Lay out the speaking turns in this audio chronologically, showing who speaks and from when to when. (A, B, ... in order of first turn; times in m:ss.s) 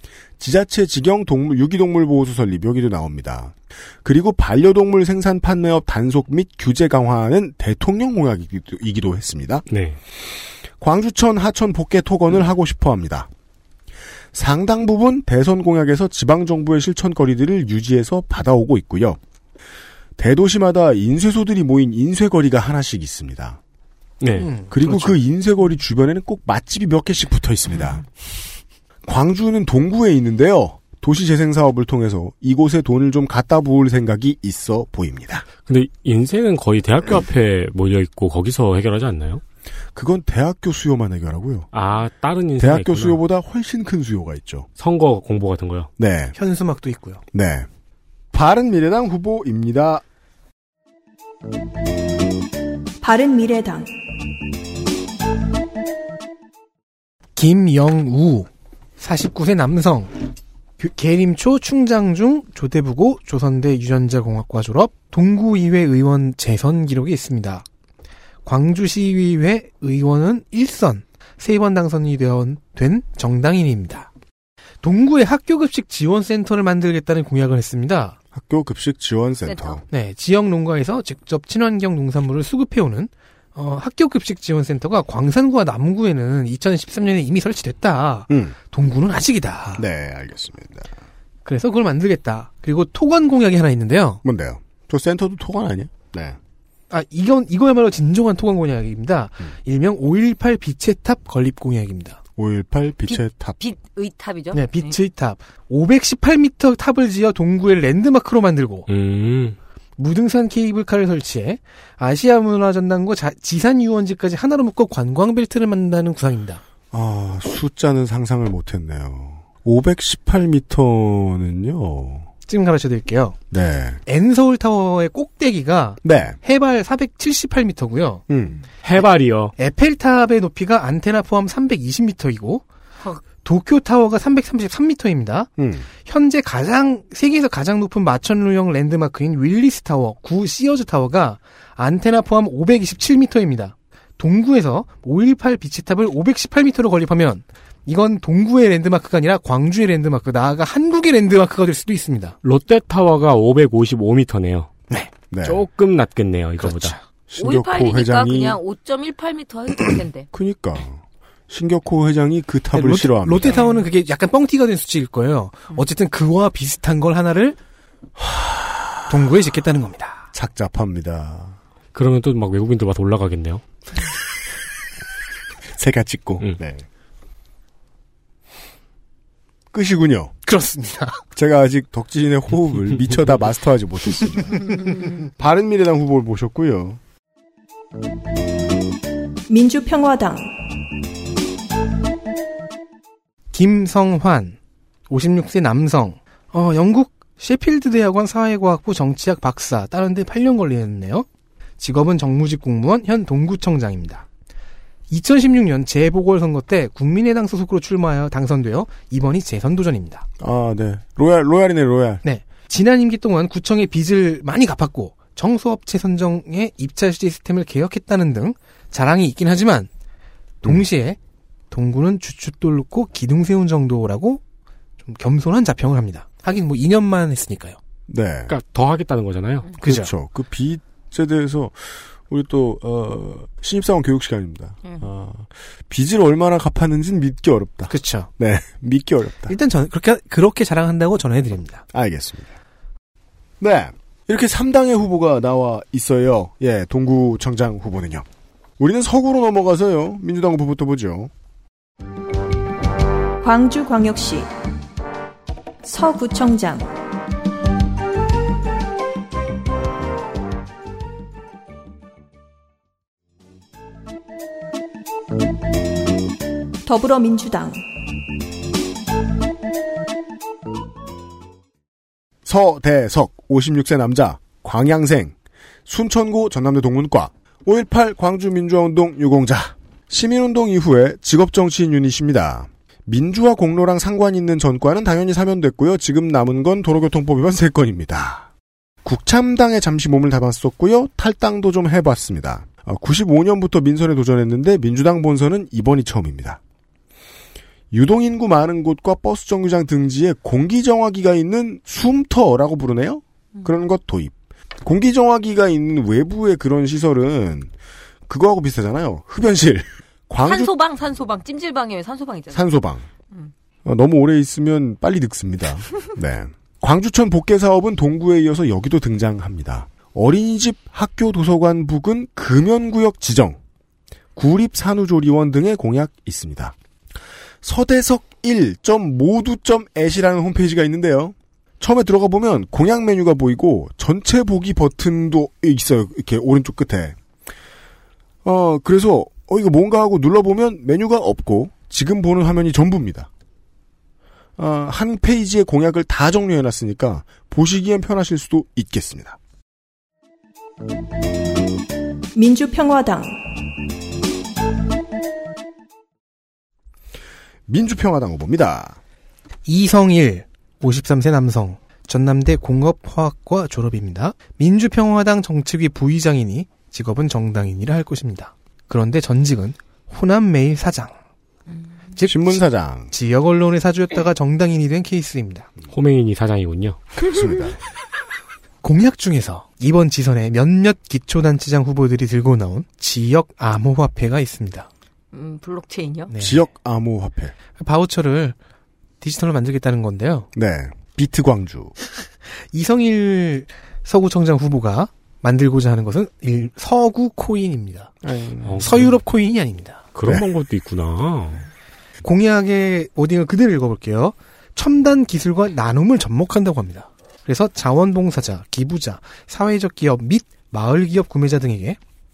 0:00.4-0:09.7 A
0:09.7-0:10.0 B
0:10.8-0:13.3 A
0:14.3-0:19.2 A
0:20.2-0:23.6 A
0:24.2-0:25.1 B
0:24.4-0:24.7 C
0:24.7-0:28.0 A
0:29.0-0:35.5 A
0:35.7-0:39.4 B
0:40.0-0:41.7 A
0:41.7-0:43.2 B
0:42.6-0:44.7 A
0:44.8-0:45.9 B
0:46.0-0:46.3 A
0:46.4-0:47.2 C
0:47.3-0:47.7 A
0:48.3-0:50.0 A
0:53.0-0:53.9 D
0:57.4-1:00.2 C
1:00.8-1:07.7 C
1:08.4-1:14.1 C
1:14.8-1:18.2 C
1:18.3-1:19.8 A
1:19.4-1:19.8 E
1:19.9-1:29.8 C
1:28.3-1:28.6 A
1:29.8-1:30.9 A
1:31.5-1:34.2 C
1:34.2-1:36.4 A
1:36.9-1:42.2 C
1:42.4-1:43.6 A
1:43.1-1:45.0 E
1:44.5-1:48.9 C
1:48.9-1:49.6 B
1:50.0-1:56.6 C
1:56.9-2:02.3 A
2:02.5-2:03.4 C
2:03.5-2:04.0 A
2:04.1-2:08.2 C
2:06.0-2:06.4 A
2:08.3-2:08.6 A
2:08.8-2:09.5 B
2:09.6-2:12.6 C
2:13.2-2:15.5 C
2:15.6-2:15.9 A
2:16.0-2:32.4 C
2:32.4-2:34.7 B
2:35.3-2:35.6 A
2:35.4-2:37.0 B
2:36.6-2:37.0 C
2:37.3-2:38.6 A
2:37.4-2:40.3 E
2:40.3-2:43.6 A
2:42.7-2:47.6 C
2:43.5-2:43.8 E
2:48.2-2:49.0 A
2:49.1-2:50.2 C
2:50.3-2:51.6 A
2:51.9-2:53.6 B
2:55.7-2:56.8 A
2:59.7-3:00.4 A
3:00.5-3:01.2 C
3:01.4-3:04.7 A
3:05.4-3:07.0 A
3:09.5-3:10.5 D
3:13.5-3:14.6 C
3:15.1-3:21.3 C
3:21.8-3:24.2 C
3:25.1-3:30.3 C
3:30.4-3:32.2 A
3:32.2-3:39.9 C
3:40.6-3:41.2 C
3:41.7-3:44.4 C
3:45.0-3:47.8 C
3:48.1-3:48.5 A
3:48.5-3:49.7 B
3:49.8-3:50.1 C
3:49.8-3:59.5 A
3:57.9-3:58.3 C
3:59.5-4:01.8 C
4:01.9-4:02.5 A
4:03.6-4:08.2 A
4:08.8-4:11.3 A
4:13.4-4:14.5 D
4:15.8-4:16.9 D
4:26.9-4:27.8 D
4:32.4-4:35.3 A
4:35.9-4:48.5 A
4:49.0-4:56.6 A
4:57.9-5:07.7 A
5:08.3-5:10.7 A
5:10.4-5:12.7 E
5:12.5-5:13.1 A
5:13.8-5:23.6 A
5:24.4-5:26.8 A
5:27.6-5:37.2 A
5:38.4-5:43.3 A
5:44.6-5:49.4 A
5:52.4-5:53.3 D
5:57.7-5:59.0 A
5:59.7-6:11.2 C
6:12.2-6:15.7 C
6:12.3-6:13.1 A
6:15.9-6:17.0 B
6:17.2-6:17.8 A
6:18.8-6:24.9 C
6:25.3-6:26.3 E
6:26.3-6:26.6 C
6:26.4-6:27.5 A
6:27.8-6:28.6 C
6:29.2-6:30.5 C
6:30.5-6:32.0 A
6:32.7-6:38.1 C
6:38.2-6:38.9 A
6:38.6-6:39.1 B
6:38.8-6:40.0 C
6:40.1-6:41.7 B
6:42.2-6:52.0 C